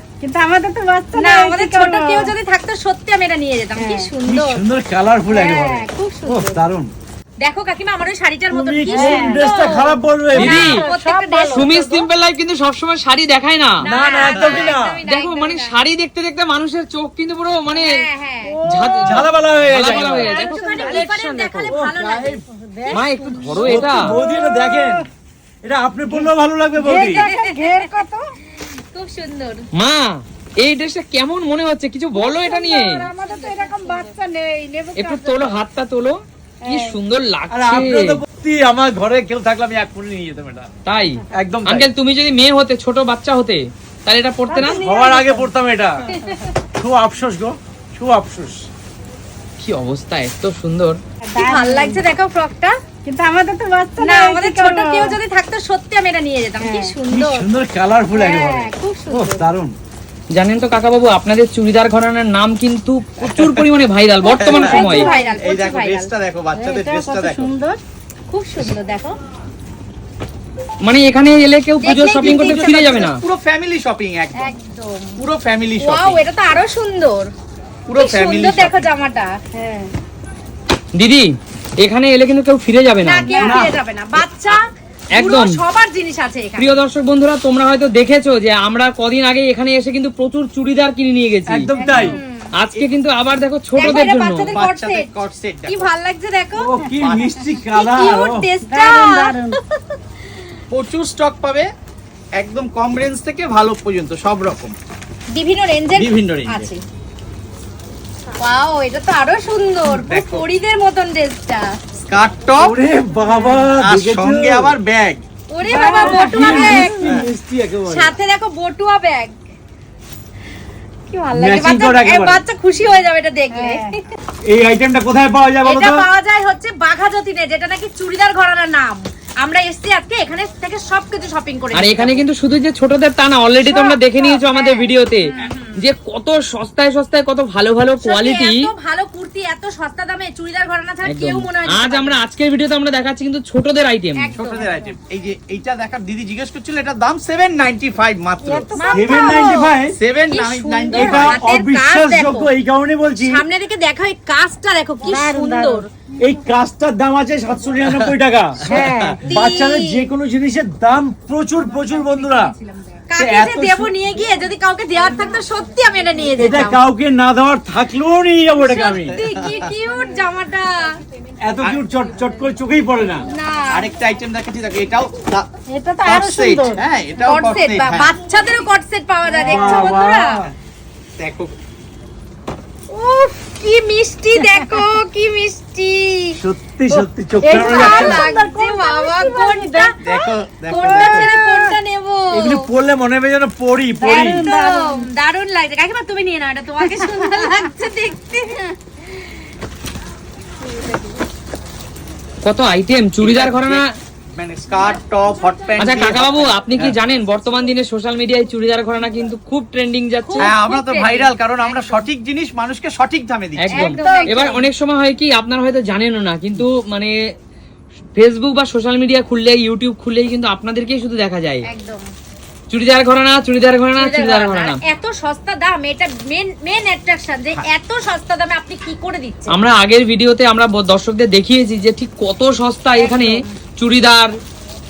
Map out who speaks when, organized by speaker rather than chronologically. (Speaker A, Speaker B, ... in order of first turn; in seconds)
Speaker A: 0.2-2.3, 3.8-4.1, 8.9-9.4, 10.6-11.9, 18.4-19.3, 20.2-21.0, 22.0-25.0, 26.8-28.2, 32.2-35.6, 36.6-37.0, 44.5-45.5, 51.3-52.0, 53.0-55.2, 56.6-57.0, 64.5-65.3, 66.5-67.8, 79.5-79.9, 83.3-83.6, 91.8-92.1, 98.6-99.6, 113.3-113.6, 115.6-117.3, 123.5-124.0, 148.4-149.7, 155.0-155.8, 158.6-159.2, 175.7-176.8, 179.3-179.9, 184.3-184.8, 186.9-191.8, 194.0-195.1, 213.7-214.7
Speaker B: 1.1-4.6, 5.3-6.5, 7.4-12.0, 13.8-15.8, 17.7-18.6, 19.8-22.4, 27.1-27.9, 28.5-29.6, 33.2-34.1, 46.1-46.4, 51.4-52.7, 54.0-57.5, 58.1-59.4, 64.4-66.1, 68.3-69.2, 71.8-73.0, 74.3-75.2, 75.8-77.3, 77.9-79.3, 83.0-84.6, 85.1-86.7, 91.8-92.5, 93.8-95.1, 95.7-96.7, 97.7-100.0, 105.3-106.8, 108.4-111.7, 115.5-117.1, 117.9-119.3, 121.1-124.0, 125.6-132.2, 133.7-135.8, 138.0-142.2, 144.2-144.9, 148.7-149.7, 150.3-152.5, 153.2-155.8, 159.3-160.1, 162.4-166.8, 168.6-170.9, 173.3-173.9, 177.2-180.4, 182.9-186.4, 187.5-190.0, 190.7-192.7, 194.1-198.7, 210.2-212.1, 213.7-214.6, 221.7-222.0, 223.9-229.6, 233.0-233.5
Speaker C: 4.2-6.9, 8.5-10.7, 13.8-15.0, 19.0-20.4, 21.7-22.4, 23.6-25.0, 25.6-27.2, 37.5-40.7, 41.4-41.9, 44.6-46.0, 46.8-48.6, 57.1-59.7, 91.5-92.2, 96.6-98.5, 112.6-114.8, 116.0-118.1, 121.3-122.4, 124.5-126.1, 148.9-149.9, 150.9-153.4, 156.2-162.5, 163.2-163.9, 166.4-169.2, 171.4-173.3, 179.5-180.5, 186.4-188.2, 192.3-194.4
Speaker D: 10.3-10.8, 11.5-13.8, 15.1-17.9, 18.7-21.7, 22.9-24.1, 29.8-33.1, 35.0-36.2, 36.7-38.2, 40.9-44.8, 49.6-51.0, 60.3-65.1, 70.8-73.2, 80.9-83.4, 85.2-85.5, 86.6-91.7, 92.6-94.6, 131.7-138.6, 141.1-144.3, 202.4-203.8, 205.8-210.5, 213.6-217.1, 218.2-221.6, 222.7-224.8, 229.5-234.3
Speaker E: 14.2-14.7, 63.2-63.6, 64.3-67.5, 72.2-74.5, 75.2-76.2, 77.9-78.8, 83.4-83.8, 93.8-95.9, 97.0-97.3, 100.7-101.7, 102.3-104.7, 105.9-106.7, 109.9-110.4, 112.1-112.7, 113.8-115.2, 144.3-148.7, 149.9-151.4, 158.7-158.9, 169.1-169.7, 173.7-175.5, 176.0-178.1, 181.2-181.5, 190.0-191.3, 203.2-203.8, 204.3-207.0, 210.4-213.8